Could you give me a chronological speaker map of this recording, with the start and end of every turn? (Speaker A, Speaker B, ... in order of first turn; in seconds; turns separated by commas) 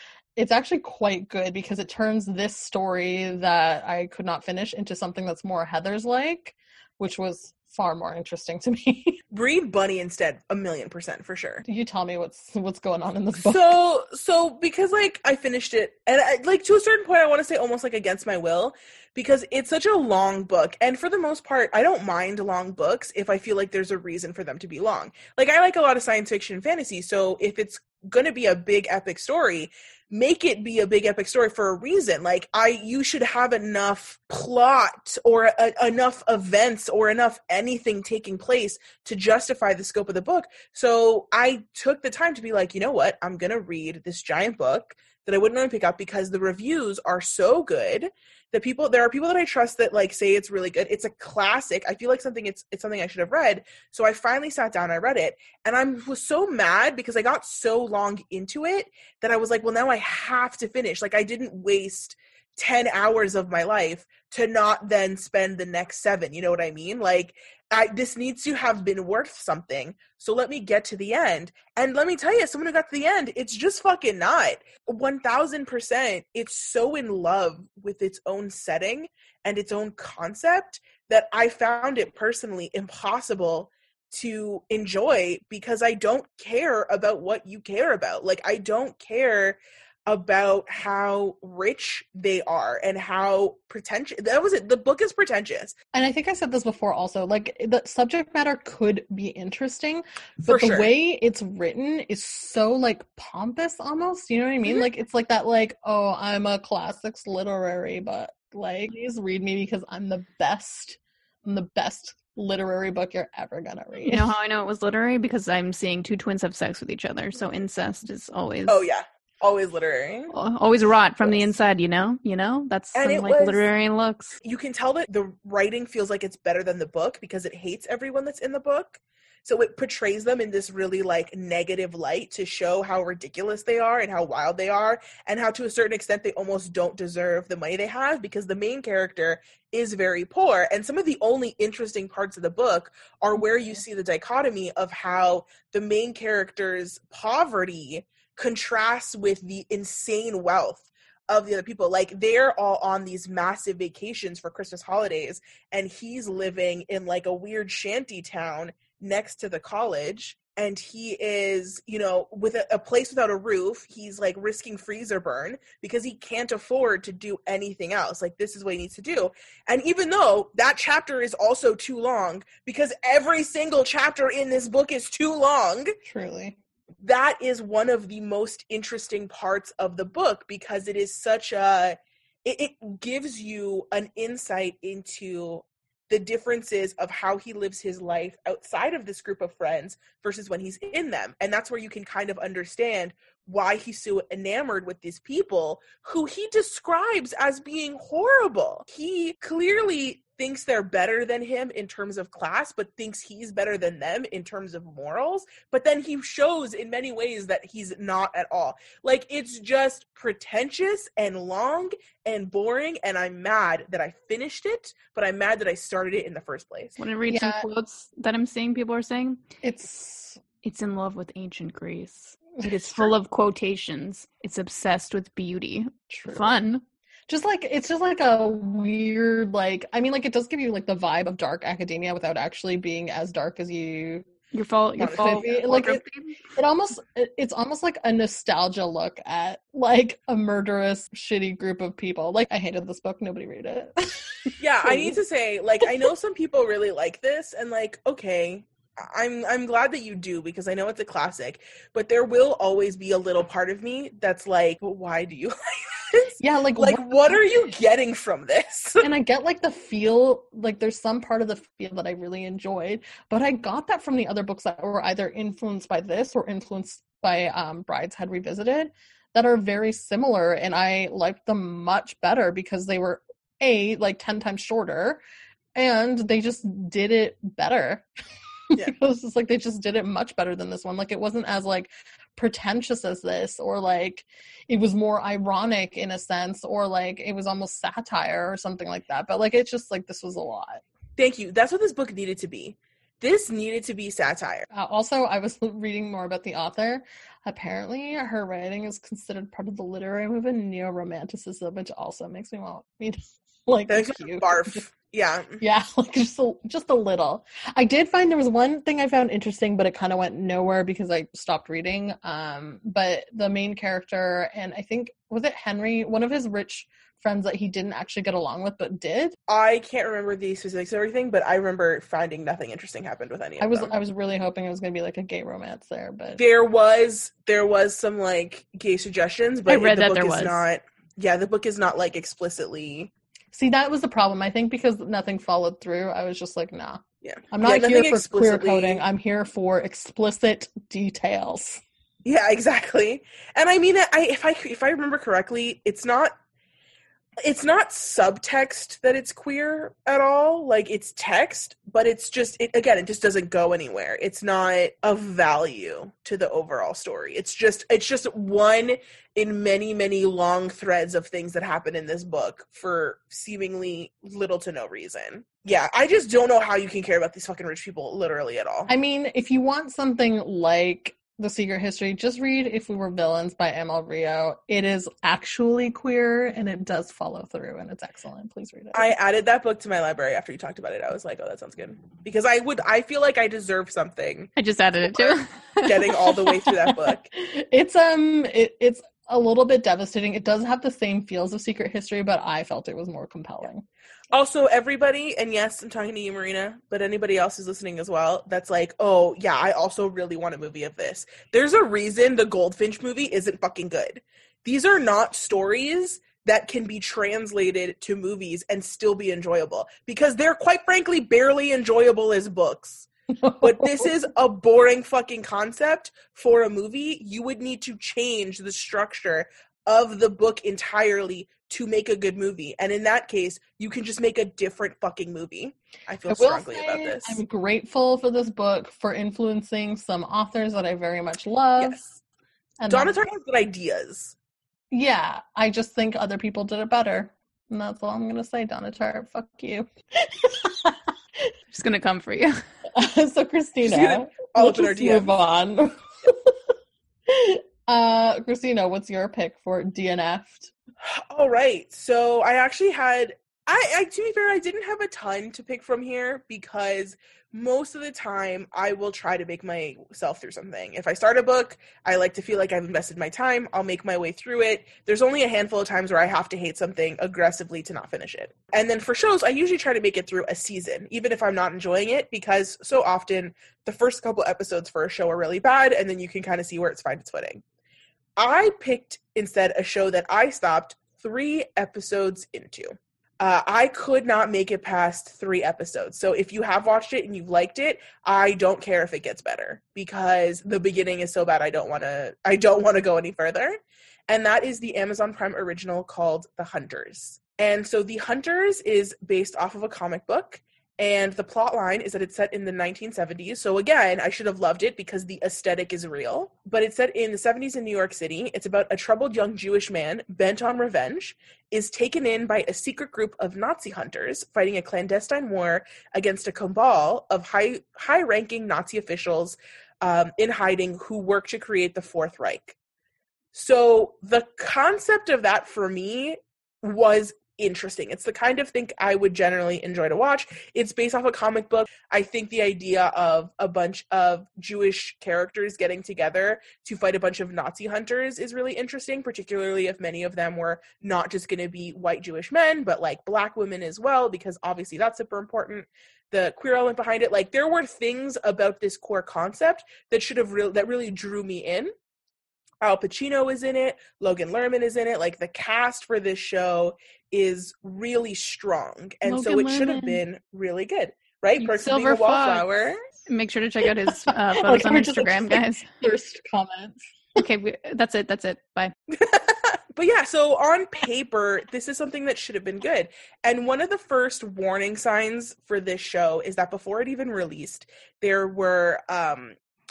Speaker A: 0.3-9.2, Speaker B: 9.3-11.6, Speaker A: 11.6-13.7, Speaker B: 13.4-95.8, Speaker A: 95.9-114.3, Speaker B: 100.4-100.9, Speaker C: 114.1-118.8, Speaker B: 118.7-120.3, Speaker C: 120.3-124.4, Speaker B: 122.9-123.6, Speaker B: 124.4-175.9, Speaker A: 176.0-176.6, Speaker B: 177.0-217.0, Speaker C: 217.0-219.4, Speaker A: 217.3-217.6, Speaker A: 219.6-220.4, Speaker C: 220.6-226.8, Speaker A: 222.6-223.1, Speaker A: 226.1-226.6, Speaker A: 227.3-234.2, Speaker C: 234.5-236.4, Speaker B: 235.0-235.9, Speaker A: 235.2-236.0, Speaker A: 236.5-245.2, Speaker B: 244.6-259.1, Speaker A: 256.4-257.7, Speaker A: 259.0-275.2, Speaker A: 275.7-278.1, Speaker A: 278.7-290.8, Speaker B: 291.2-294.7, Speaker A: 294.7-304.8, Speaker B: 303.9-305.6, Speaker A: 305.6-319.4, Speaker B: 319.5-323.9, Speaker A: 323.6-326.4, Speaker B: 326.4-333.1, Speaker C: 329.7-330.6, Speaker A: 333.5-341.8, Speaker B: 337.2-339.0, Speaker B: 342.2-346.3, Speaker B: 347.4-368.9, Speaker A: 368.9-379.1, Speaker B: 378.9-384.5, Speaker C: 384.6-386.0, Speaker B: 385.1-387.3, Speaker A: 386.4-393.8, Speaker B: 394.3-413.1, Speaker A: 413.4-414.1, Speaker B: 413.6-427.4, Speaker A: 426.3-432.0, Speaker B: 431.8-432.0, Speaker A: 432.8-433.2, Speaker B: 432.9-434.3, Speaker A: 434.9-441.5, Speaker C: 441.7-442.6, Speaker A: 442.9-446.6, Speaker B: 443.8-445.3, Speaker A: 447.3-450.7, Speaker B: 451.0-477.6, Speaker B: 478.4-522.8, Speaker B: 523.5-551.9, Speaker B: 552.8-563.0, Speaker C: 559.2-560.2, Speaker C: 561.6-562.6, Speaker C: 563.2-565.9, Speaker A: 564.1-567.1, Speaker C: 567.4-568.9, Speaker B: 569.1-579.5